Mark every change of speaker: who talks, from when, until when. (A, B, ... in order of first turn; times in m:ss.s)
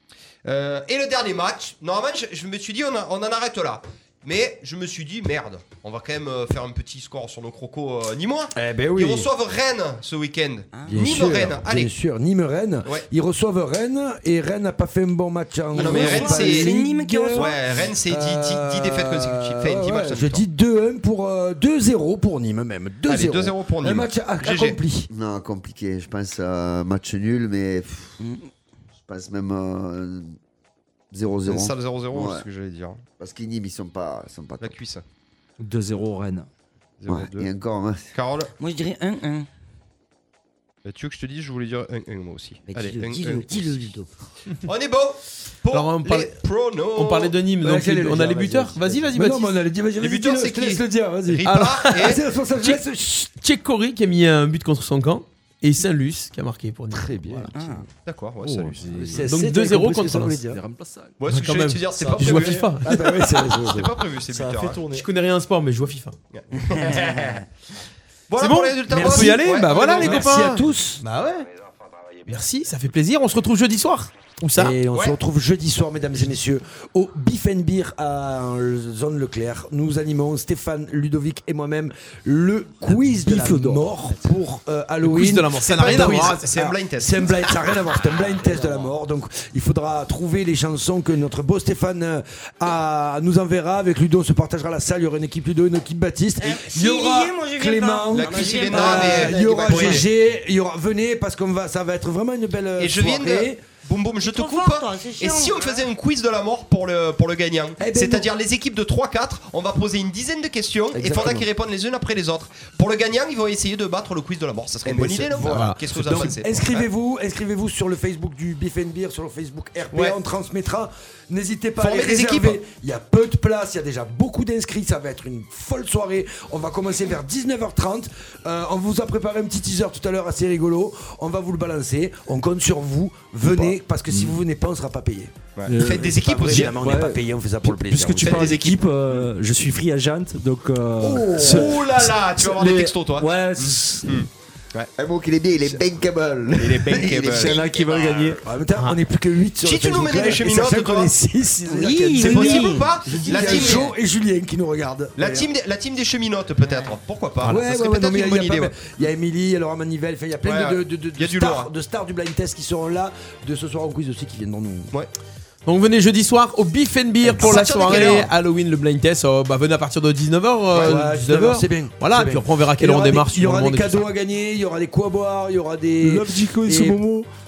0:00.4-0:11.9 A
0:08.6-0:09.3 B
0:10.7-0:11.0 C
0:10.9-0:17.5 B
0:15.7-0:17.6 C
0:15.8-0:16.7 A
0:17.3-0:20.4 A
0:18.1-0:25.1 B
0:23.1-0:24.8 A
0:25.1-0:28.2 D
0:28.2-0:28.5 C
0:29.0-0:30.4 D
0:31.1-0:32.4 D
0:31.5-0:33.0 A
0:33.2-0:34.8 D
0:34.6-0:35.0 A
0:35.6-0:36.5 E
0:37.0-0:37.5 A
0:37.1-0:38.1 D
0:38.1-0:38.5 A
0:38.6-0:39.5 C
0:40.8-0:43.8 A
0:42.7-0:44.1 C
0:44.6-0:47.4 A
0:45.7-0:46.4 F
0:47.0-0:49.6 F
0:47.6-0:53.4 B
0:50.0-0:52.8 A
0:51.5-0:52.0 F
0:53.3-0:57.5 F
0:56.9-0:57.9 B
0:57.5-0:57.9 C
0:58.0-0:58.9 A
0:58.4-0:59.4 E
0:58.9-1:00.6 B
0:59.3-1:00.4 F
1:00.4-1:01.2 E
1:01.2-1:02.6 A
1:01.3-1:03.1 F
1:02.0-1:02.7 E
1:02.8-1:04.0 B
1:03.6-1:04.8 A
1:04.3-1:05.1 E
1:04.9-1:06.2 F
1:06.3-1:07.4 A
1:08.3-1:10.6 A
1:08.4-1:11.5 F
1:08.9-1:11.0 B
1:12.3-1:14.8 F
1:14.6-1:43.6 B
1:14.9-1:15.2 A
1:22.9-1:24.1 E
1:25.0-1:26.5 F
1:25.6-1:27.7 A
1:36.4-1:39.2 C
1:38.1-1:40.1 A
1:38.5-1:40.1 D
1:42.8-1:56.9 A
1:44.2-1:45.8 C
1:47.8-1:48.3 B
1:50.9-1:51.4 B
1:54.8-2:18.5 B
1:55.4-1:56.3 F
1:59.9-2:00.2 A
2:01.8-2:02.6 A
2:14.1-2:14.4 E
2:15.6-2:16.8 A
2:15.7-2:24.2 E
2:18.2-2:19.0 A
2:21.0-2:21.8 B
2:21.4-2:24.9 A
2:25.0-2:27.7 D
2:26.6-2:28.4 A
2:27.2-2:28.4 E
2:28.4-2:35.5 B
2:29.6-2:31.2 A
2:31.7-2:33.9 C
2:32.2-2:33.9 A
2:33.3-2:33.7 D
2:35.2-2:38.8 A
2:36.6-2:37.0 C
2:37.4-2:44.9 B
2:40.4-2:41.7 A
2:45.7-2:54.0 F
2:47.2-2:48.2 B
2:47.4-2:48.3 A
2:50.8-2:57.0 B
2:56.0-2:57.3 E